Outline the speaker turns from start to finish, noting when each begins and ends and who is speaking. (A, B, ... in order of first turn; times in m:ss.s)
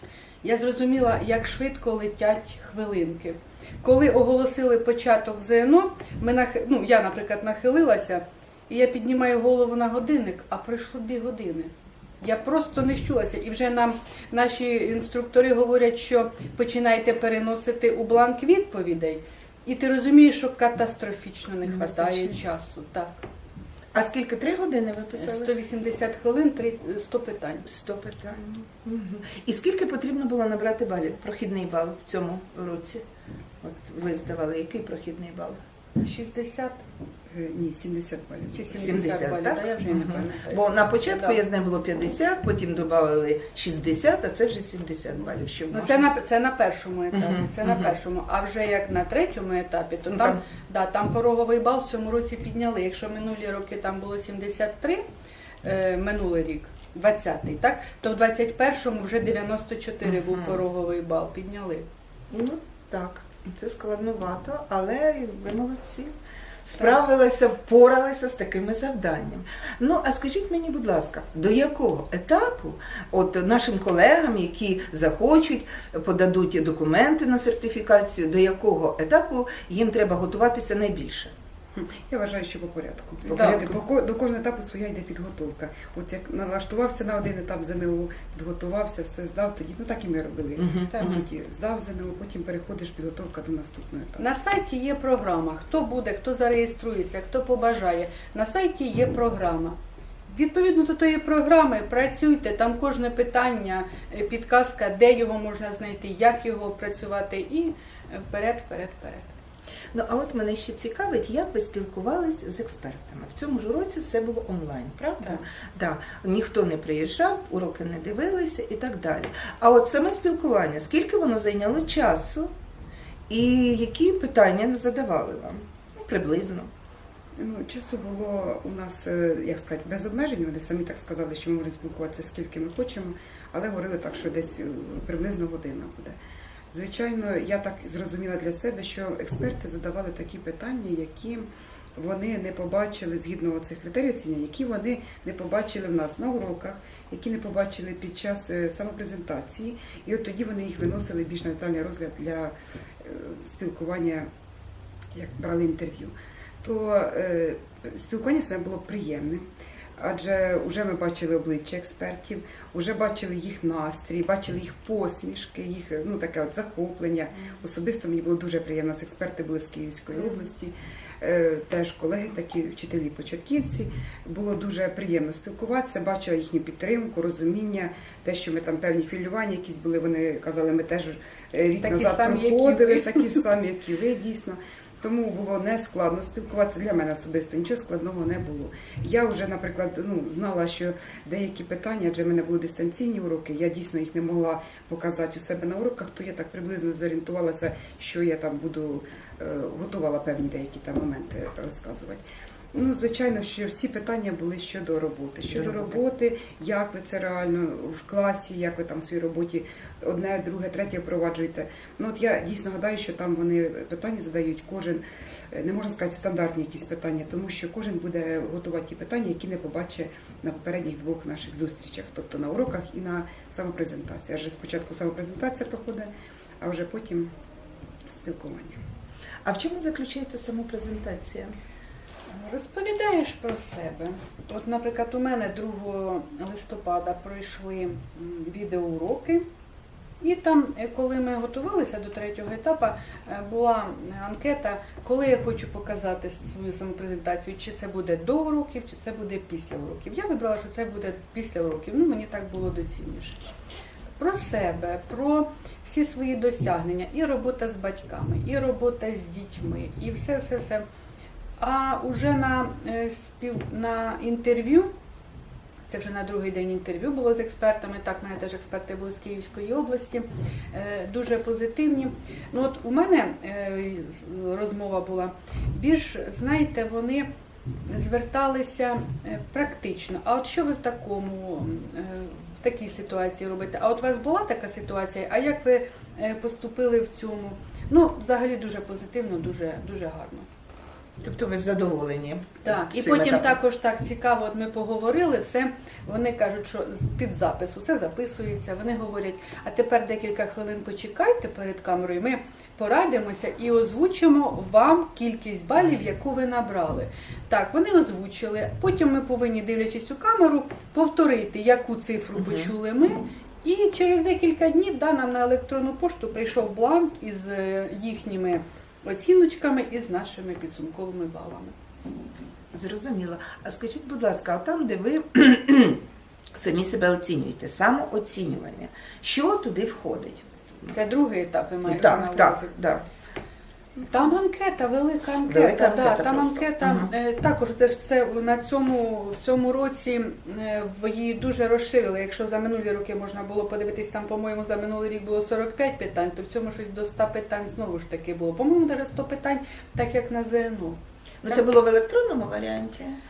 0:00.4-0:23.2 A
0:21.6-0:22.4 B
0:23.9-0:25.5 B
0:25.1-0:27.6 A
0:27.6-0:33.0 B
0:33.6-0:35.6 B
0:36.0-0:36.8 A
0:37.3-0:39.2 C
0:38.5-0:41.4 A
0:38.7-0:46.1 B
0:45.7-0:55.0 A
0:47.2-0:47.7 B
0:50.1-0:50.4 B
0:55.6-1:01.8 A
1:00.2-1:00.6 B
1:02.3-1:06.1 B
1:06.6-1:21.3 B
1:21.7-1:34.2 C
1:23.3-1:23.8 B
1:23.3-1:23.7 A
1:30.6-1:31.2 B
1:30.9-1:31.2 A
1:34.2-1:39.8 A
1:40.3-1:49.3 A
1:49.9-2:02.5 B
2:03.3-2:06.7 B
2:07.4-2:16.2 C
2:16.7-2:34.3 C
2:35.1-2:39.4 C
2:40.0-3:22.2 C
3:01.8-3:03.4 A
3:22.7-3:46.1 C
3:46.6-3:47.3 C
3:48.1-3:48.8 C
3:49.4-3:51.5 B
3:52.3-3:59.4 A
4:00.2-4:13.4 A
4:14.2-4:20.8 A
4:21.6-4:24.9 A
4:25.9-4:37.3 A
4:37.9-4:50.5 A
4:51.2-4:53.6 B
4:52.6-5:21.7 A
5:12.4-5:12.7 B
5:22.7-5:26.0 B
5:26.5-5:30.6 B
5:30.9-5:32.8 A
5:31.8-5:33.0 B
5:34.0-5:51.6 A
5:35.4-5:37.1 B
5:51.4-5:53.2 B